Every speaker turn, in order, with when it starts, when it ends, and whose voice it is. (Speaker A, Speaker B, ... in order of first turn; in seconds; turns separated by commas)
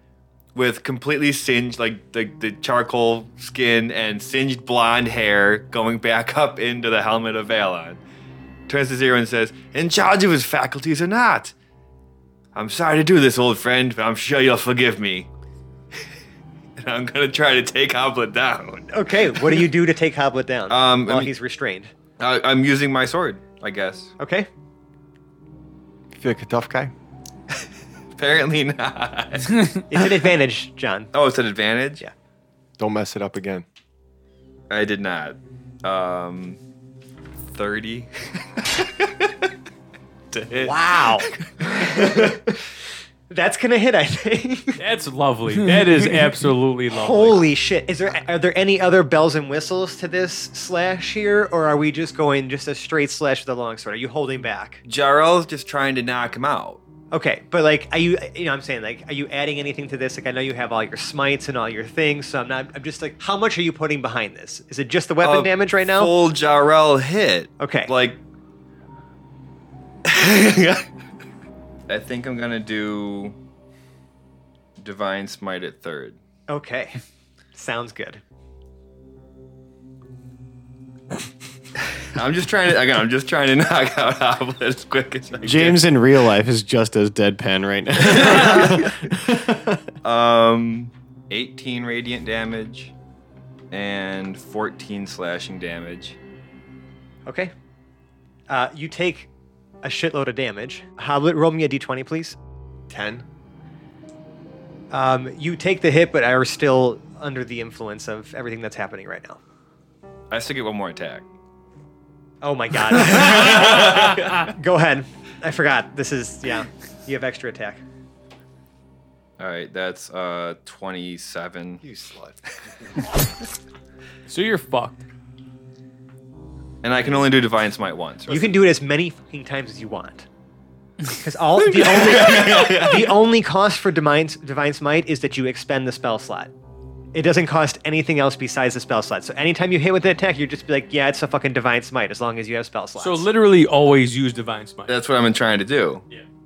Speaker A: 0.5-8.0, Speaker A: 8.7-11.5, Speaker A: 12.5-15.3, Speaker A: 16.8-19.6, Speaker B: 18.9-21.9, Speaker A: 20.7-21.3, Speaker A: 22.2-24.1, Speaker B: 24.2-24.5, Speaker C: 26.1-26.9, Speaker A: 28.1-29.8, Speaker B: 29.9-31.1, Speaker A: 31.1-32.0, Speaker C: 32.8-33.6, Speaker A: 34.7-36.6, Speaker A: 37.5-39.3, Speaker A: 40.3-42.3, Speaker B: 40.6-42.4, Speaker B: 43.3-44.8, Speaker D: 44.8-47.5, Speaker B: 46.9-54.8, Speaker A: 54.9-56.8, Speaker B: 57.1-66.1, Speaker A: 65.2-68.2, Speaker B: 67.6-67.9, Speaker A: 70.0-70.8, Speaker A: 71.9-73.3, Speaker A: 74.8-76.2, Speaker B: 76.5-77.0, Speaker B: 77.5-78.2, Speaker A: 82.0-85.8, Speaker E: 85.4-89.8, Speaker A: 88.1-88.9, Speaker A: 90.0-92.9, Speaker A: 93.7-96.2, Speaker B: 97.2-97.5, Speaker B: 98.5-99.3, Speaker B: 99.8-102.4, Speaker C: 102.9-103.2, Speaker B: 104.9-109.4, Speaker A: 110.3-111.2, Speaker B: 112.4-117.8, Speaker A: 113.0-114.3, Speaker A: 119.4-121.8, Speaker C: 121.8-122.5, Speaker D: 124.3-125.0, Speaker A: 126.8-128.6, Speaker B: 128.3-130.2, Speaker B: 131.1-136.5, Speaker A: 132.0-133.0, Speaker B: 137.1-143.2, Speaker D: 143.0-144.9, Speaker A: 144.9-146.0